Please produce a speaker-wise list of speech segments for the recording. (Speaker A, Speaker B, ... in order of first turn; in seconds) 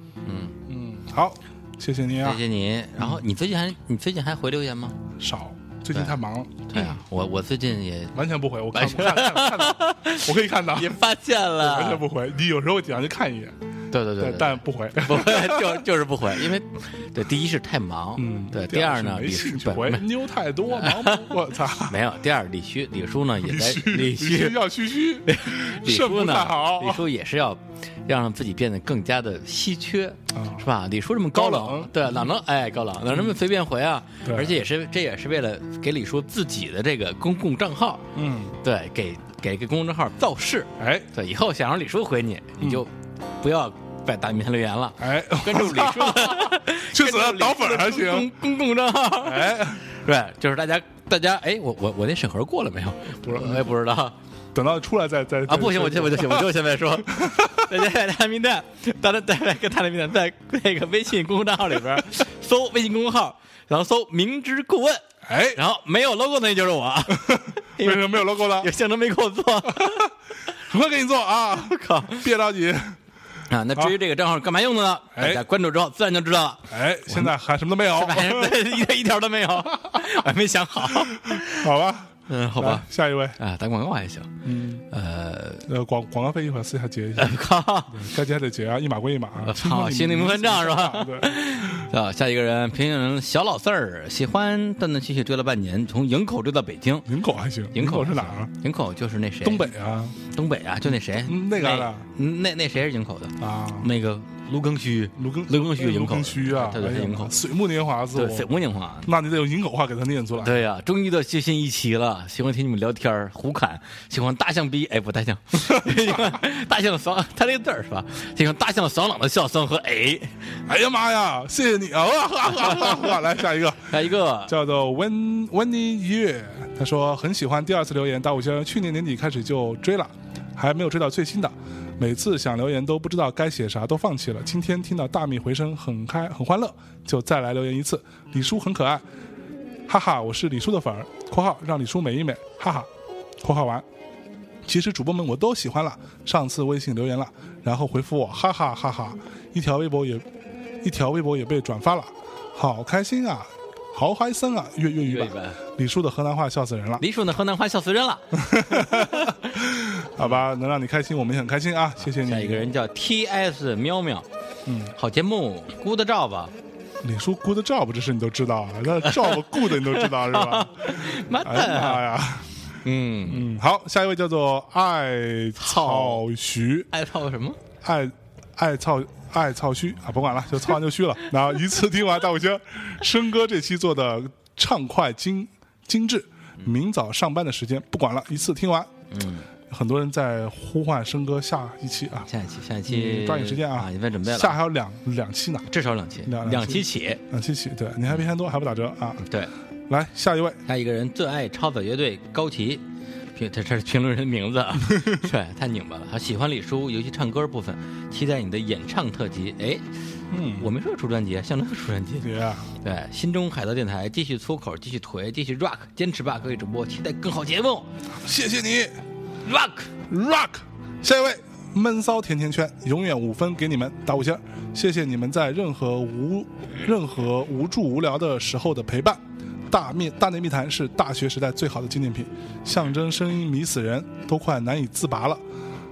Speaker A: 0.2-0.6, 2.2-5.0, 5.9-8.2, 8.7-12.0, 13.9-20.1, 20.7-21.3, 21.9-24.7, 25.2-38.1, 38.6-54.1, 55.5-70.1, 71.6-72.3, 73.5-77.3, 77.9-81.7, 82.3-82.8, 83.4-84.3, 84.9-85.7, 87.2-88.0, 89.4-97.1, 97.7-99.7, 100.3-107.4, 108.1-109.1, 110.4-120.5, 122.5-123.1, 123.9-124.5, 155.0-155.6, 157.0-159.5, 162.1-164.3, 164.9-166.5, 169.0-172.1, 172.8-173.4, 175.6-176.2, 176.9-177.6, 189.1-189.5, 192.3-194.6, 195.7-197.2, 199.2-199.5, 200.7-202.8, 203.3-209.8, 210.6-212.3, 212.8-217.9, 219.4-220.0
Speaker B: 0.7-2.4, 5.2-6.9, 8.1-11.0, 11.6-13.5, 14.2-15.8, 18.2-22.0, 23.4-27.0, 30.3-30.6, 31.3-32.2, 34.2-34.6, 38.1-38.5, 40.8-41.1, 45.0-48.3, 49.2-49.8, 53.2-53.7, 54.5-56.5, 57.1-57.7, 65.3-65.6, 67.2-68.7, 69.8-70.0, 70.6-73.0, 75.1-75.4, 76.7-78.7, 81.1-83.4, 84.4-84.8, 85.7-91.8, 97.1-98.5, 99.4-100.2, 101.2-102.0, 103.4-103.9, 105.2-108.5, 109.0-110.6, 115.6-116.3, 120.7-124.0, 124.5-139.0, 139.9-142.9, 143.4-143.8, 144.7-150.3, 150.8-157.0, 158.3-162.7, 164.7-164.9, 167.0-172.5, 173.2-176.9, 177.8-188.9, 189.7-192.3, 192.9-195.7, 196.2-199.2, 199.9-200.6, 204.9-205.2, 210.3-210.7, 212.2-212.7, 218.2-219.0, 220.1-235.4